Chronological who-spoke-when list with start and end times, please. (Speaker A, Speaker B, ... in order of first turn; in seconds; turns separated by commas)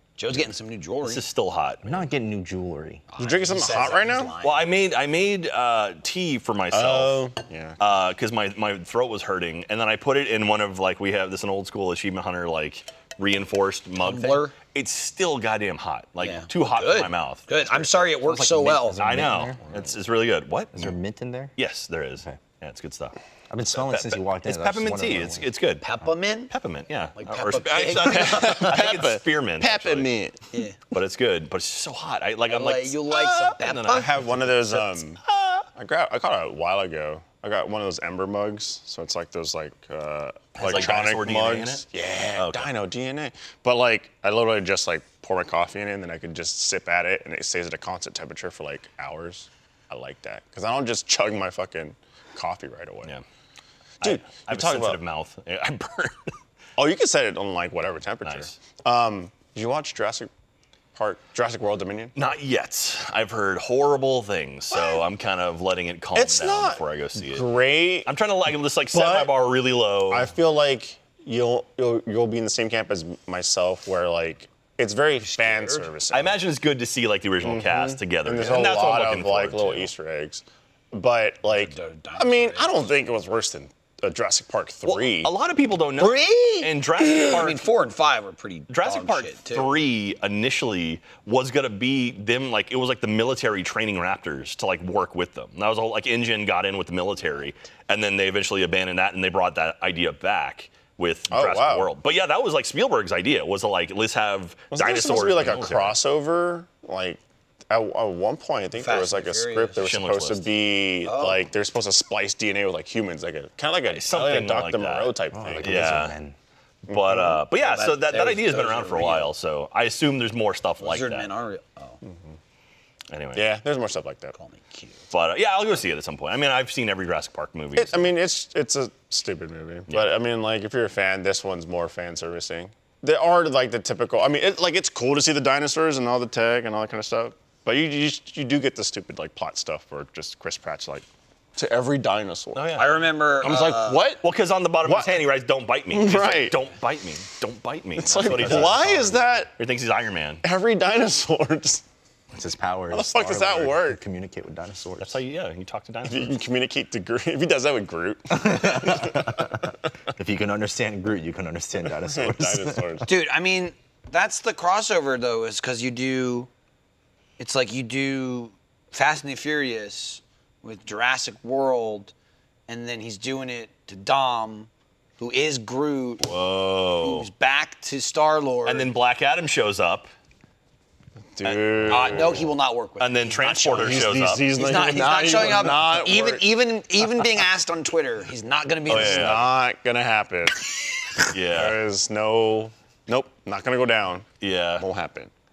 Speaker A: 0.2-1.2, Speaker B: 1.0-2.0, Speaker C: 1.8-3.0, Speaker A: 3.1-4.7, Speaker D: 3.2-4.3, Speaker B: 4.4-7.2, Speaker D: 6.7-7.8, Speaker B: 7.8-18.0, Speaker A: 14.0-14.5, Speaker A: 16.2-19.0, Speaker C: 18.2-19.6, Speaker B: 19.0-20.9, Speaker C: 20.7-21.5, Speaker B: 21.6-23.2, Speaker C: 23.5-25.5, Speaker B: 23.8-25.8, Speaker A: 25.8-26.5, Speaker B: 26.5-30.1, Speaker A: 27.2-28.7, Speaker D: 28.0-30.4, Speaker B: 30.9-35.6, Speaker A: 32.5-34.1, Speaker D: 33.9-35.2, Speaker D: 35.8-53.1, Speaker B: 40.5-42.7, Speaker B: 54.0-56.3, Speaker D: 54.0-55.0, Speaker D: 56.8-60.3, Speaker B: 58.2-58.5, Speaker D: 60.9-62.1, Speaker B: 62.1-67.5, Speaker D: 64.7-65.0, Speaker D: 66.1-68.1, Speaker B: 68.0-70.3, Speaker D: 68.9-69.3, Speaker D: 70.1-76.4, Speaker A: 75.2-75.9, Speaker B: 76.1-79.9, Speaker D: 77.4-85.3, Speaker A: 81.5-82.9, Speaker B: 84.8-87.6, Speaker A: 86.0-89.8, Speaker B: 88.7-106.0, Speaker D: 101.3-101.9, Speaker D: 104.7-116.0, Speaker A: 108.8-109.8, Speaker B: 109.8-110.5, Speaker A: 111.0-111.4, Speaker B: 113.9-116.1, Speaker C: 115.3-116.3, Speaker D: 116.9-117.4, Speaker B: 116.9-121.3, Speaker A: 117.5-119.3, Speaker A: 120.8-122.0, Speaker D: 122.0-122.3, Speaker B: 123.1-123.5, Speaker D: 123.3-124.3, Speaker A: 124.3-125.0, Speaker B: 125.1-128.1, Speaker D: 127.8-142.9, Speaker B: 142.5-143.0, Speaker A: 142.7-144.1, Speaker D: 143.4-144.2, Speaker B: 144.2-150.4, Speaker D: 144.8-145.2, Speaker D: 145.9-146.6, Speaker D: 147.9-149.5, Speaker C: 148.3-149.2, Speaker D: 150.4-151.8, Speaker C: 152.3-155.2, Speaker D: 152.9-154.0, Speaker B: 155.0-156.3, Speaker D: 156.1-159.5, Speaker C: 158.3-162.8, Speaker D: 162.0-163.1, Speaker A: 163.1-166.5, Speaker A: 167.4-172.1, Speaker A: 172.7-176.3, Speaker B: 176.2-177.3, Speaker A: 177.0-178.9, Speaker B: 178.7-180.1, Speaker D: 181.3-182.5, Speaker B: 181.4-182.3, Speaker A: 181.9-189.4, Speaker B: 183.0-184.5, Speaker D: 183.8-186.4, Speaker D: 188.9-195.3, Speaker B: 188.9-189.5, Speaker B: 191.3-191.8, Speaker B: 194.4-194.8